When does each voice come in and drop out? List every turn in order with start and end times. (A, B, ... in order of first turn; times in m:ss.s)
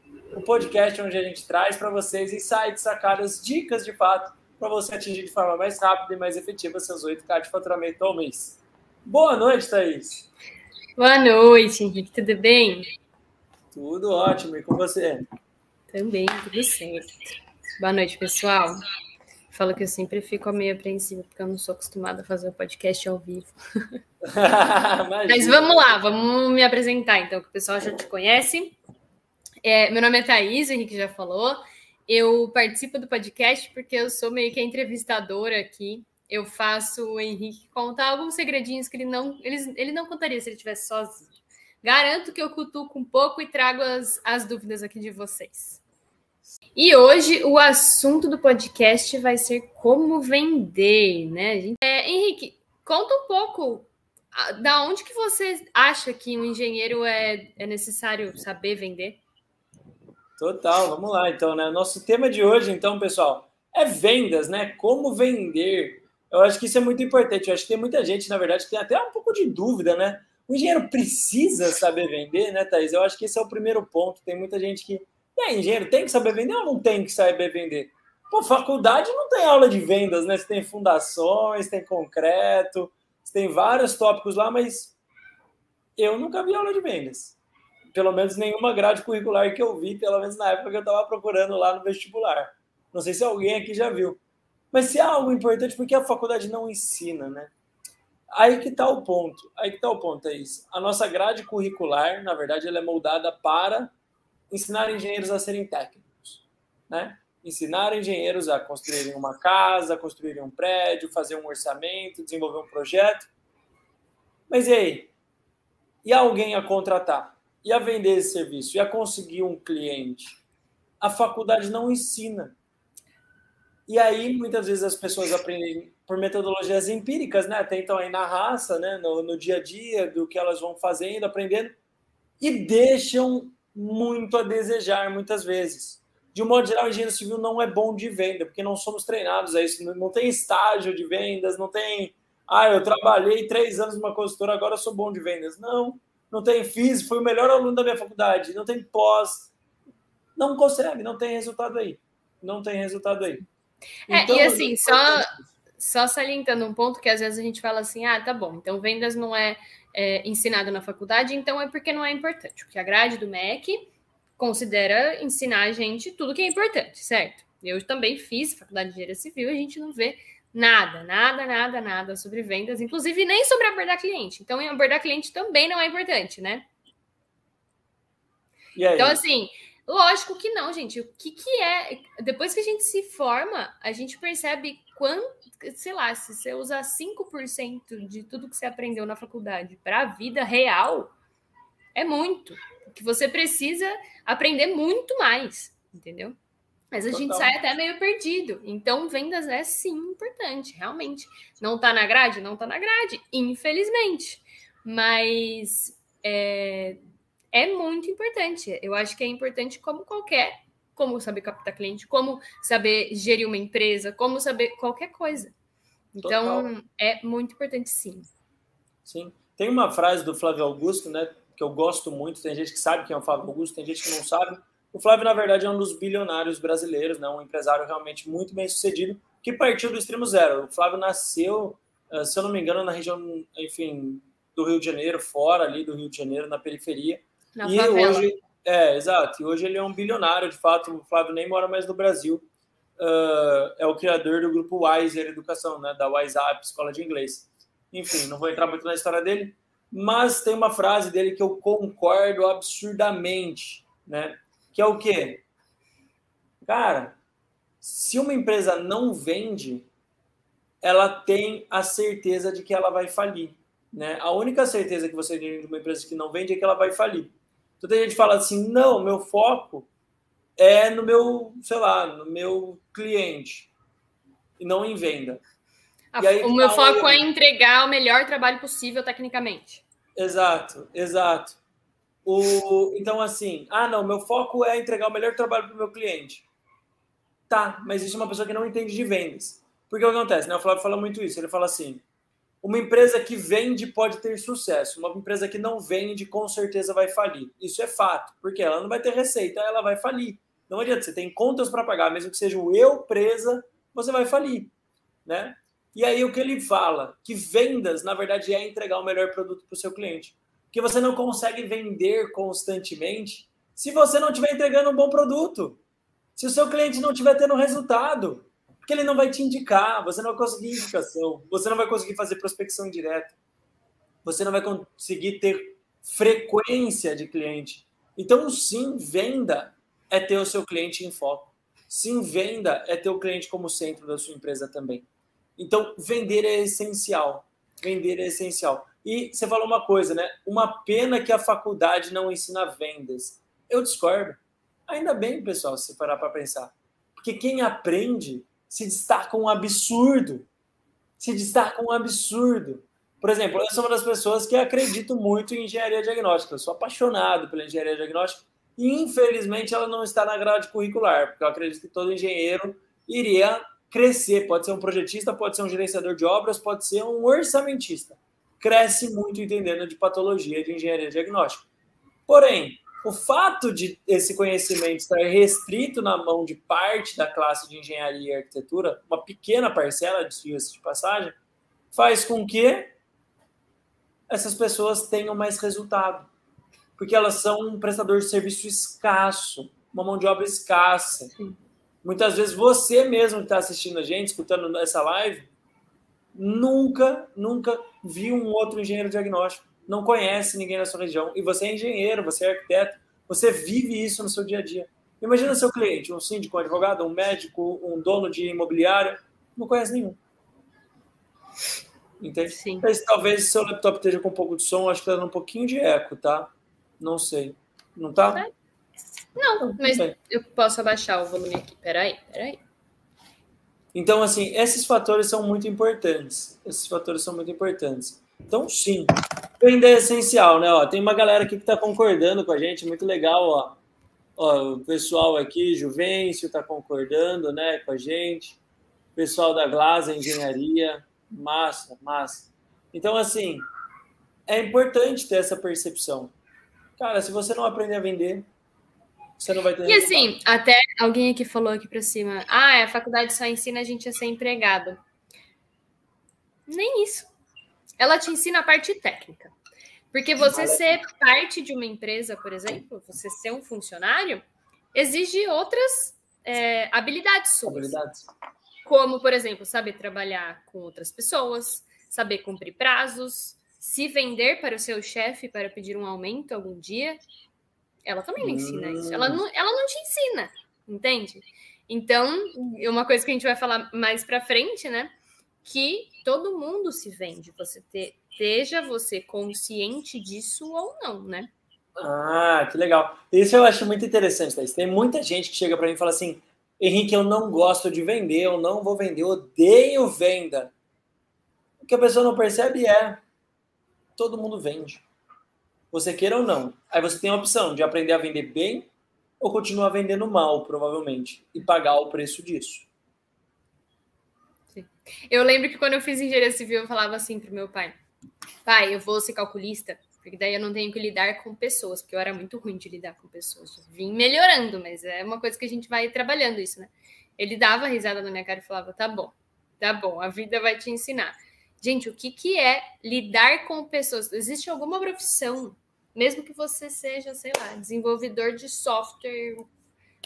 0:00.3-0:10.3 A
0:11.0-0:12.9 B
0:13.7-0:15.3 A
0:15.9-0:18.8 B
0:19.5-0:23.6 B
0:24.2-0:25.9 A
0:25.3-0:28.8 B
0:29.6-0:41.3 B
0:41.8-0:45.8 B
0:46.8-0:59.2 B
1:00.4-1:25.0 A
1:26.0-1:27.4 A
1:27.9-1:34.2 A
1:34.7-1:37.5 A
1:38.3-1:43.9 A
1:44.5-1:53.3 A
1:54.5-1:55.1 A
1:56.0-2:00.4 A
2:01.0-2:02.6 A
2:03.9-2:11.8 A
2:12.4-2:29.5 A
2:30.4-2:33.4 A
2:34.1-2:56.7 B
2:34.1-2:35.4 A
2:58.8-2:59.2 A
2:59.0-3:11.1 B
3:12.0-3:16.4 B
3:16.9-3:27.0 B
3:17.1-3:17.6 A
3:27.5-3:35.5 B
3:36.2-3:38.3 B
3:36.2-3:36.7 A
3:39.0-4:02.4 A
3:57.6-3:58.3 B
4:03.0-4:15.4 A
4:16.6-4:17.2 A
4:17.8-4:19.9 A
4:20.8-4:29.9 A
4:30.6-4:33.7 A
4:34.6-4:35.4 A
4:36.1-4:39.8 B
4:36.2-4:37.2 A
4:40.2-4:41.6 A
4:42.2-4:46.5 A
4:47.5-4:52.0 A
4:52.6-5:04.7 A
5:05.3-5:15.8 A
5:16.4-5:23.4 A
5:24.2-5:35.1 A
5:35.6-5:50.5 A
5:51.2-6:11.7 A
6:12.3-6:21.4 A
6:21.9-6:22.9 A
6:24.3-6:26.3 A
6:27.0-6:31.3 A
6:32.0-6:35.5 A
6:36.3-6:50.2 A
6:52.2-6:58.5 A
6:52.5-6:52.8 B
6:59.4-7:02.6 B
6:59.6-7:00.2 A
7:03.9-7:13.8 A
7:14.4-7:18.6 A
7:19.2-7:23.6 A
7:24.5-7:26.3 A
7:27.0-7:28.5 A
7:29.4-7:30.4 A
7:29.8-7:35.0 B
7:36.7-7:37.3 B
7:38.0-7:39.5 B
7:40.1-7:48.0 B
7:40.4-7:41.0 A
7:47.7-7:48.3 A
7:48.8-7:57.2 B
7:58.0-8:11.5 B
7:58.4-7:59.4 A
8:12.0-8:20.7 A
8:21.8-8:23.2 A
8:24.2-8:25.0 A
8:25.9-8:28.9 A
8:29.4-8:32.9 A
8:34.7-8:38.0 B
8:38.6-8:59.7 B